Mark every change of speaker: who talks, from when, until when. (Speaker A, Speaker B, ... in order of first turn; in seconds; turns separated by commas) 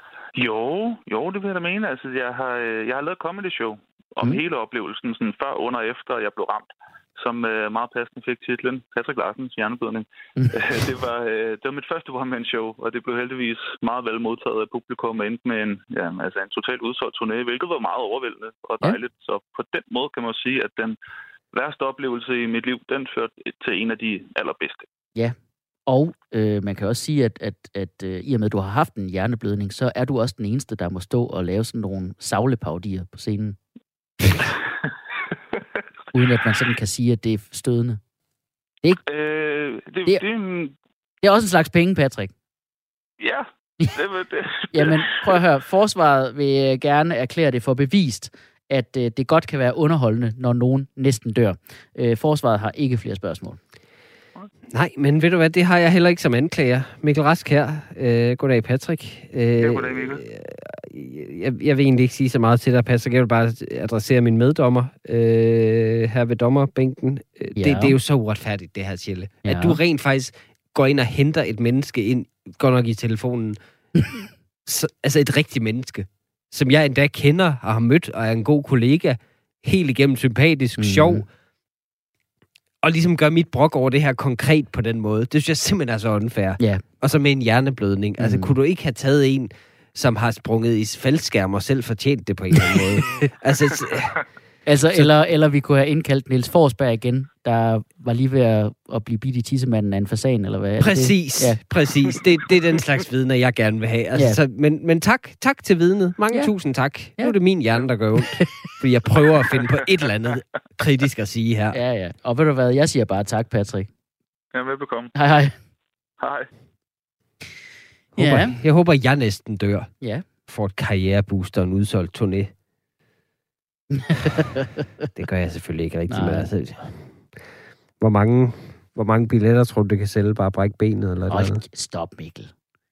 Speaker A: 0.4-10.0, Speaker A: 10.6-20.9, Speaker A: 21.5-24.8, Speaker B: 25.9-33.6, Speaker B: 36.1-38.0, Speaker A: 39.1-40.7, Speaker B: 41.2-42.3, Speaker A: 43.2-44.7, Speaker B: 44.7-53.6, Speaker C: 54.7-73.6, Speaker A: 59.6-60.1, Speaker B: 67.5-68.0, Speaker B: 69.4-69.8, Speaker C: 74.7-81.2, Speaker B: 80.8-81.2, Speaker C: 82.8-94.2, Speaker B: 88.2-88.5, Speaker B: 92.7-93.2, Speaker B: 94.7-101.6, Speaker C: 100.8-111.8, Speaker B: 104.1-104.4, Speaker B: 108.2-108.7, Speaker B: 111.7-113.9, Speaker A: 114.5-115.1, Speaker B: 115.1-115.5, Speaker C: 118.1-119.9, Speaker B: 118.2-118.5, Speaker B: 120.0-120.2, Speaker C: 120.5-122.5, Speaker B: 123.9-124.8, Speaker C: 125.2-127.0, Speaker B: 126.1-126.5, Speaker C: 128.0-131.6, Speaker B: 131.3-132.5